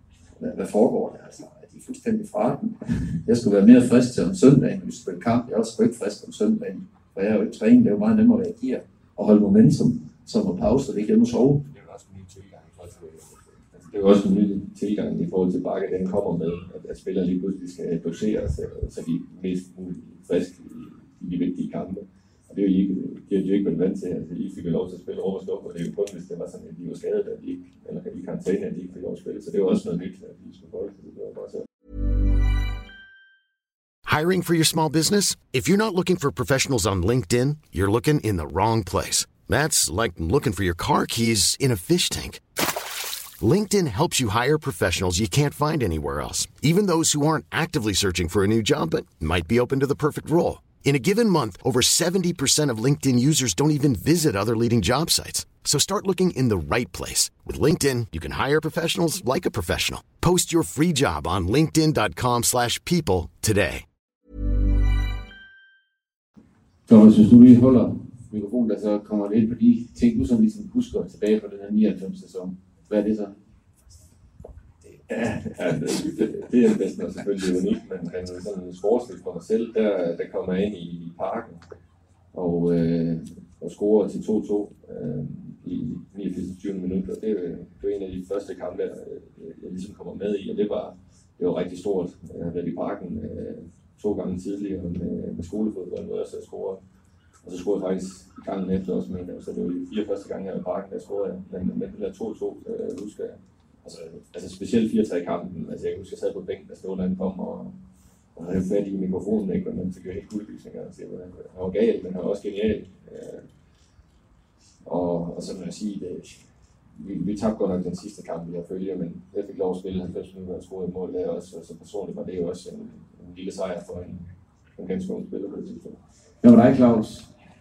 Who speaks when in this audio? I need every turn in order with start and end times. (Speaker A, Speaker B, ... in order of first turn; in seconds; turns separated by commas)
Speaker A: 0.4-11.7, Speaker B: 11.7-31.6, Speaker C: 34.0-42.4, Speaker C: 43.4-63.9, Speaker D: 66.9-73.3, Speaker B: 75.1-81.6, Speaker B: 82.3-96.8, Speaker B: 97.4-107.8, Speaker B: 108.3-113.5, Speaker B: 114.8-116.4, Speaker B: 117.0-124.2, Speaker B: 124.8-126.0, Speaker D: 126.4-127.3